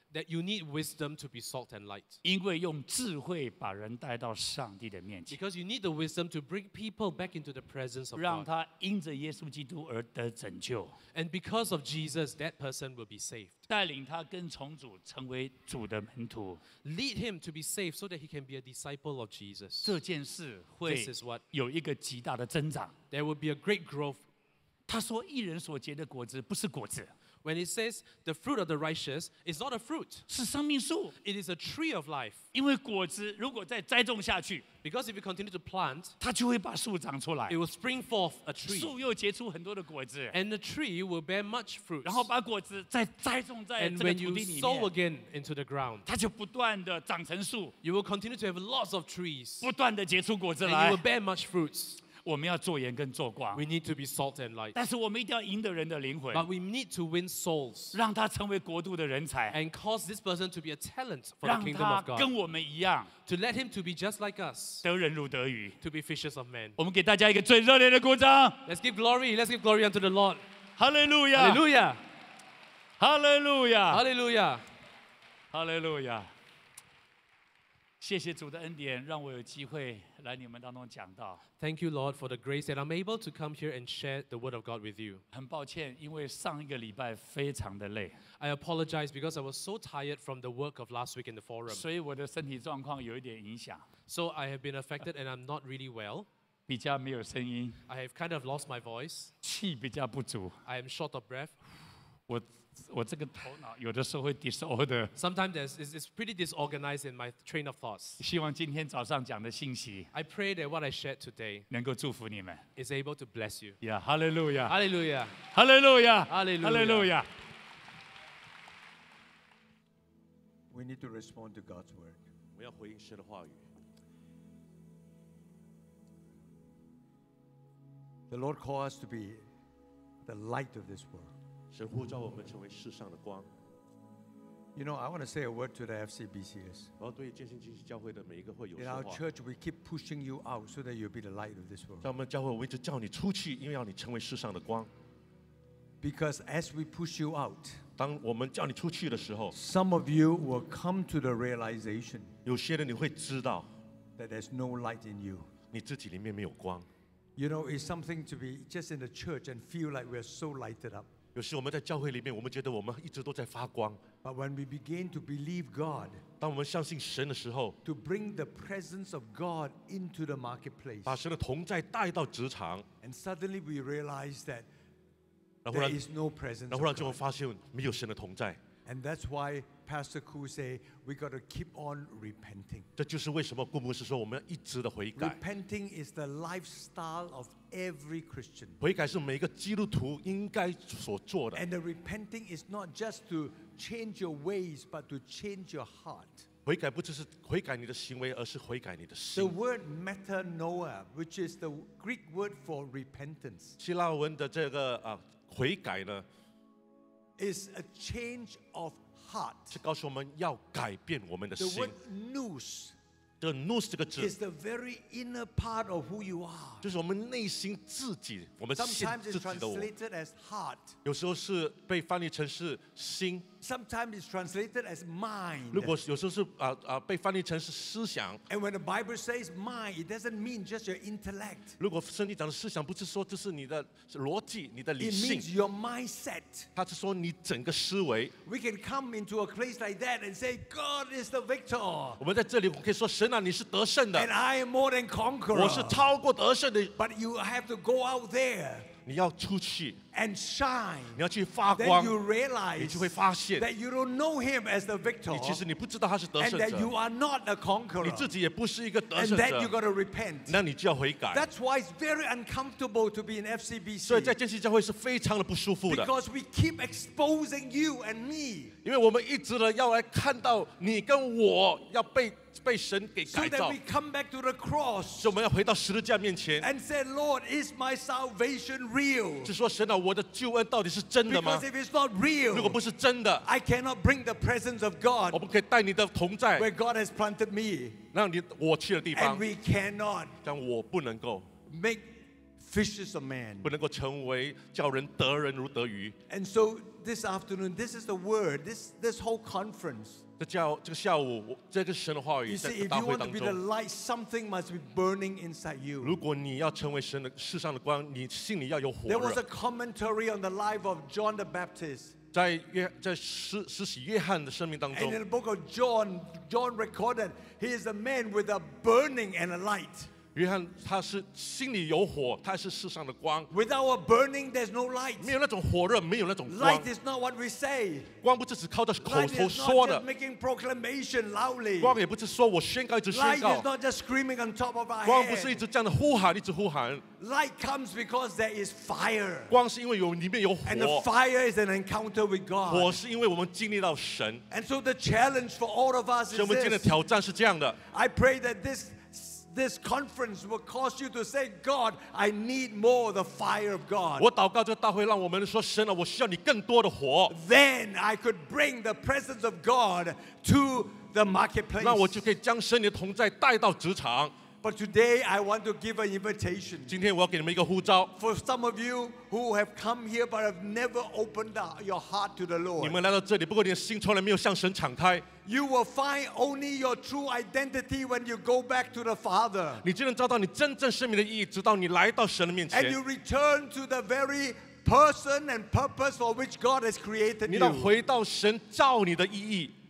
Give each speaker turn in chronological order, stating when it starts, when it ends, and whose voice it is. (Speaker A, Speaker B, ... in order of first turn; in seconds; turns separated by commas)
Speaker A: 0.1-2.2, Speaker B: 2.2-5.4, Speaker A: 5.3-8.5, Speaker B: 8.2-10.9, Speaker A: 11.1-13.6, Speaker B: 13.7-16.6, Speaker A: 16.8-19.9, Speaker B: 19.8-22.9, Speaker A: 20.9-21.4, Speaker A: 23.1-24.2, Speaker B: 24.9-27.1, Speaker A: 27.4-30.3, Speaker B: 30.3-31.1, Speaker A: 31.2-32.4, Speaker B: 32.5-34.6, Speaker A: 34.8-36.2, Speaker B: 36.2-37.6, Speaker A: 37.5-39.0, Speaker B: 38.7-40.3, Speaker A: 40.3-42.3, Speaker B: 42.0-44.9, Speaker A: 43.8-46.1, Speaker B: 46.1-47.7, Speaker A: 47.8-49.7, Speaker B: 49.6-51.0, Speaker A: 50.6-52.0, Speaker B: 52.2-53.6, Speaker A: 53.5-54.8, Speaker B: 54.8-56.5, Speaker A: 56.3-58.0, Speaker B: 57.9-59.6, Speaker A: 59.5-62.3, Speaker B: 61.4-63.1, Speaker A: 63.3-64.8, Speaker B: 64.8-65.7, Speaker A: 65.8-66.8, Speaker B: 66.8-68.6, Speaker A: 68.7-70.4, Speaker B: 70.8-71.6, Speaker A: 71.4-72.0, Speaker B: 73.0-74.0, Speaker A: 73.9-74.6, Speaker B: 75.5-76.3, Speaker B: 78.0-81.4, Speaker A: 81.6-85.2, Speaker B: 85.3-88.2, Speaker A: 88.4-91.8, Speaker B: 91.7-93.8, Speaker A: 94.1-96.3, Speaker B: 96.7-97.8, Speaker A: 97.9-99.3, Speaker B: 99.4-100.5, Speaker A: 100.7-101.6, Speaker B: 102.3-105.1, Speaker A: 105.2-108.2, Speaker B: 108.2-110.1, Speaker A: 110.1-111.7, Speaker B: 111.7-112.6, Speaker A: 112.8-113.8, Speaker B: 113.8-114.8, Speaker A: 114.7-115.3, Speaker B: 115.5-117.3, Speaker A: 116.3-117.1, Speaker C: 120.7-122.2, Speaker D: 122.6-123.7, Speaker C: 128.3-129.4, Speaker C: 130.3-131.3, Speaker D: 131.7-133.5, Speaker C: 134.8-136.9, Speaker D: 137.0-139.2, Speaker C: 138.8-142.1, Speaker D: 142.0-144.9, Speaker C: 146.0-147.8, Speaker D: 148.0-149.5, Speaker C: 149.5-152.3, Speaker D: 152.4-153.7, Speaker C: 154.2-155.5, Speaker D: 155.7-156.9, Speaker C: 157.4-161.1, Speaker D: 161.3-164.0, Speaker C: 164.2-166.2, Speaker D: 166.4-167.8, Speaker C: 167.8-171.2, Speaker D: 171.1-172.9, Speaker C: 173.0-174.7, Speaker D: 175.7-176.0, Speaker C: 175.7-177.2, Speaker D: 176.7-178.6, Speaker C: 178.9-182.9, Speaker D: 183.0-185.4, Speaker C: 185.2-188.8, Speaker D: 188.8-191.7, Speaker C: 191.5-196.5, Speaker D: 196.7-199.6, Speaker C: 199.3-203.8, Speaker D: 203.8-206.2, Speaker C: 207.4-209.8, Speaker D: 209.7-211.9, Speaker C: 211.6-212.9, Speaker D: 213.4-214.3, Speaker C: 214.2-216.8, Speaker D: 216.8-219.9, Speaker C: 218.8-221.0, Speaker D: 221.1-223.5, Speaker C: 223.6-226.0, Speaker D: 225.7-228.4, Speaker C: 228.5-231.7, Speaker D: 231.8-235.5, Speaker C: 235.0-236.7, Speaker D: 236.8-238.3, Speaker C: 238.4-242.2, Speaker D: 242.2-244.3, Speaker C: 244.1-246.1, Speaker D: 245.5-246.9, Speaker C: 247.0-248.9, Speaker D: 249.0-250.0, Speaker C: 250.1-255.6, Speaker D: 251.2-252.2, Speaker D: 252.8-253.7, Speaker D: 255.3-256.9, Speaker C: 256.4-258.3, Speaker D: 258.0-259.7, Speaker C: 259.1-260.6, Speaker D: 260.5-261.5, Speaker C: 261.3-264.4, Speaker D: 264.0-266.1, Speaker C: 265.9-268.7, Speaker D: 268.8-273.8, Speaker C: 273.3-275.3, Speaker D: 275.2-276.7, Speaker C: 276.6-279.5, Speaker D: 279.4-281.6, Speaker C: 281.3-282.8, Speaker D: 282.5-283.4, Speaker C: 283.4-285.4, Speaker D: 285.3-286.7, Speaker C: 286.6-288.0, Speaker D: 288.1-289.4, Speaker C: 289.1-290.3, Speaker D: 290.4-291.5, Speaker C: 291.7-292.1, Speaker C: 292.6-293.7, Speaker D: 293.6-296.1, Speaker C: 296.3-300.2, Speaker D: 300.4-303.6, Speaker C: 302.5-306.2, Speaker D: 306.0-309.4, Speaker C: 309.1-312.2, Speaker D: 312.3-315.2, Speaker C: 314.9-320.1, Speaker D: 320.3-323.5, Speaker C: 323.5-325.3, Speaker D: 325.2-326.9, Speaker C: 326.5-328.1, Speaker D: 328.2-330.0, Speaker C: 329.0-332.0, Speaker D: 331.8-333.7, Speaker C: 333.1-335.6, Speaker D: 335.0-337.1, Speaker C: 337.2-339.5, Speaker D: 339.5-341.1, Speaker C: 340.6-343.0, Speaker D: 342.6-344.4, Speaker C: 344.5-346.9, Speaker D: 346.3-347.8, Speaker C: 347.8-354.3, Speaker D: 354.2-357.3, Speaker C: 357.3-362.2, Speaker D: 361.8-364.3, Speaker C: 364.6-366.9, Speaker D: 366.9-368.1, Speaker C: 368.1-373.0, Speaker D: 372.8-375.3, Speaker C: 375.4-379.8, Speaker D: 379.8-383.0, Speaker C: 382.7-387.9, Speaker D: 387.5-389.7